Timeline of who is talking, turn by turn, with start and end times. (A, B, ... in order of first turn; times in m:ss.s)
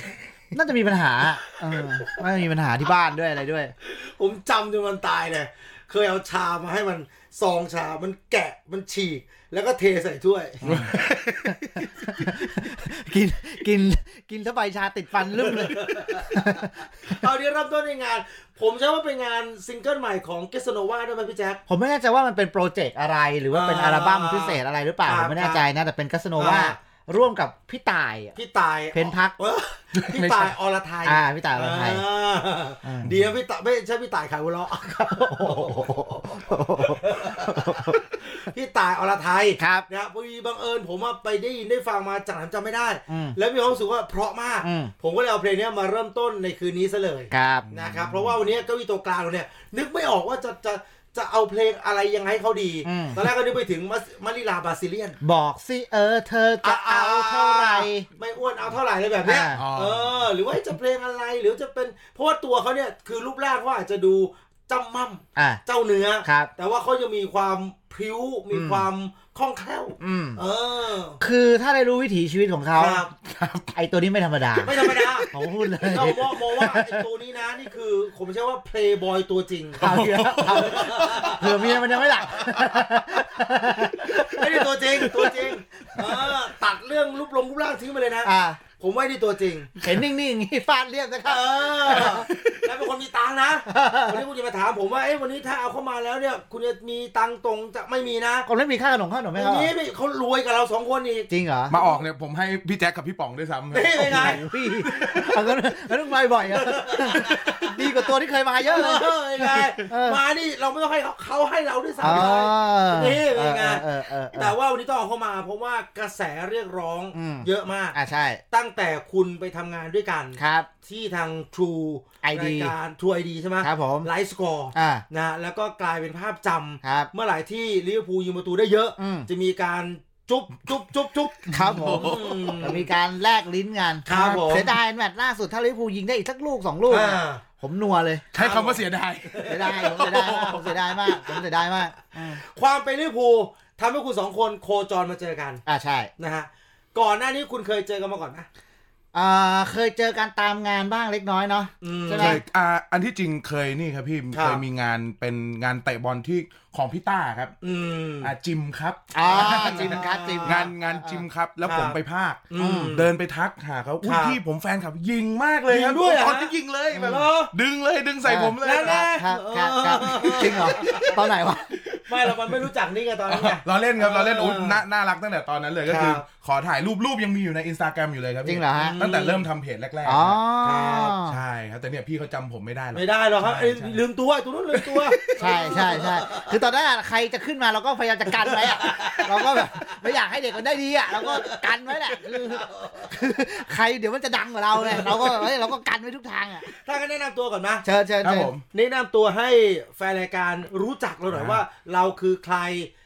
0:00.5-0:03.7 A
0:03.8-0:10.8 B
0:10.6-0:11.0 C
0:10.6-0:17.2 A
0:15.3-0:16.4 B
0:17.0-0:21.6 B
0:21.7-0:28.4 A
0:23.5-0:25.7 B
0:26.4-0:26.8 B
0:28.4-0:55.2 B
0:28.9-0:29.4 A
0:30.2-0:30.4 A
0:31.0-0:32.0 A
0:32.8-0:33.2 A
0:35.1-0:38.0 A
0:39.6-0:39.9 A
0:43.1-0:43.4 A
0:44.6-0:44.9 A
0:47.3-0:47.7 A
0:47.6-0:48.4 C
0:52.8-0:53.2 A
0:55.2-0:58.1 A
0:56.6-1:11.2 B
0:59.2-0:59.7 A
0:59.5-1:00.3 C
1:05.4-1:05.6 A
1:06.2-1:06.5 A
1:08.5-1:08.9 A
1:10.0-1:10.4 A
1:11.2-1:13.0 A
1:12.8-1:13.1 B
1:13.2-1:13.8 C
1:13.8-1:17.1 A
1:14.6-1:21.8 B
1:14.8-1:15.1 C
1:19.8-1:22.8 C
1:19.8-1:25.5 A
1:24.0-1:29.8 B
1:26.0-1:26.3 A
1:28.2-1:28.6 A
1:29.8-1:32.3 A
1:31.2-1:38.5 B
1:33.7-1:34.2 A
1:38.4-1:39.7 A
1:39.3-1:42.0 B
1:41.3-1:41.8 A
1:41.7-1:45.3 C
1:43.7-1:44.4 B
1:44.0-1:50.2 A
1:46.5-1:47.9 B
1:48.6-1:58.0 B
1:52.0-1:54.6 A
1:57.1-1:58.4 A
1:58.5-2:12.9 B
2:00.4-2:00.7 A
2:02.2-2:02.8 A
2:03.6-2:04.1 A
2:04.7-2:05.0 A
2:06.8-2:07.1 A
2:09.0-2:09.3 A
2:11.5-2:18.3 A
2:11.6-2:12.6 C
2:14.0-2:14.7 B
2:14.1-2:14.7 C
2:16.9-2:17.4 B
2:18.3-2:20.7 C
2:18.3-2:21.4 B
2:19.5-2:22.4 A
2:22.2-2:25.6 B
2:25.7-2:26.1 A
2:26.2-2:28.5 B
2:29.1-2:32.4 A
2:31.8-2:32.4 B
2:32.1-2:37.6 C
2:34.3-2:34.6 B
2:37.6-2:38.3 B
2:38.2-2:49.1 C
2:39.1-2:41.2 A
2:39.3-2:40.7 B
2:41.6-2:42.0 B
2:42.5-2:43.1 B
2:42.6-2:43.0 A
2:44.0-2:44.4 B
2:45.7-2:47.5 B
2:46.9-2:47.3 A
2:48.2-2:51.7 A
2:48.6-2:51.2 B
2:51.7-2:52.6 C
2:52.1-2:54.8 B
2:53.3-3:00.4 C
2:55.9-2:56.2 B
2:58.4-2:59.0 A
2:58.8-2:59.5 B
3:00.0-3:01.4 A
3:00.6-3:01.2 B
3:01.2-3:04.0 C
3:02.9-3:06.6 B
3:04.7-3:05.7 C
3:05.4-3:16.7 A
3:08.4-3:10.2 B
3:11.1-3:13.2 B
3:14.8-3:15.5 B
3:16.6-3:17.9 B
3:17.8-3:18.5 A
3:18.2-3:18.6 C
3:18.7-3:22.9 B
3:21.3-3:21.6 C